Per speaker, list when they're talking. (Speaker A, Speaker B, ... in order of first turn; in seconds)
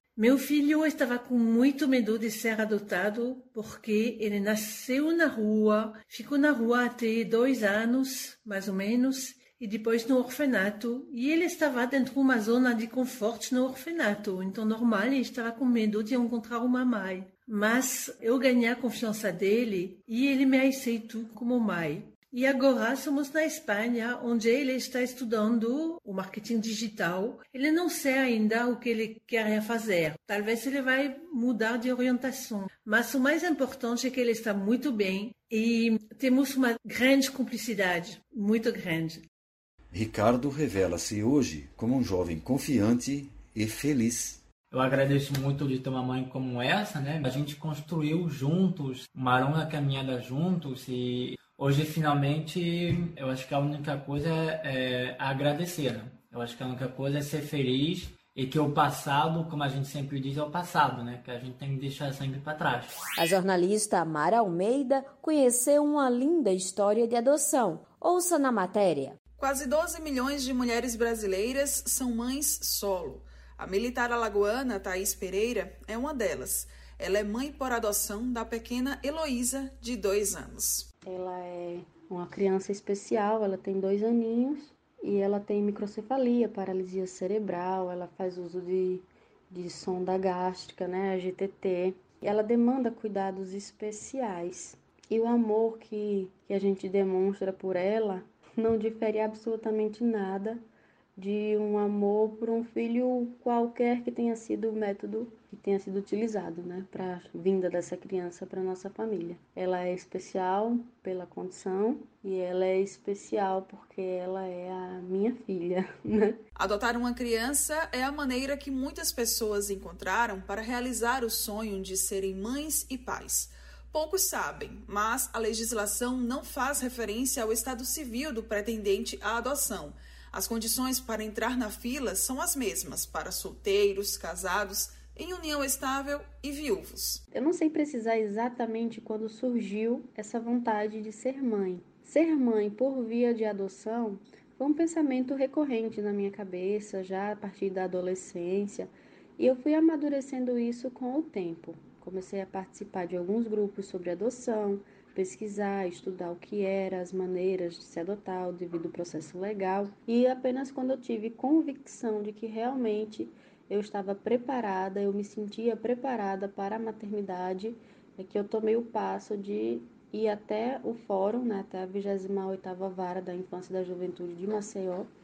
Speaker A: 0.1-39.2
Speaker B: 39.9-44.4
Speaker C: 44.7-63.0
Speaker D: 63.2-69.2
Speaker E: 69.4-80.9, 116.5-137.2
Speaker F: 81.0-100.6, 101.2-116.4, 137.3-175.1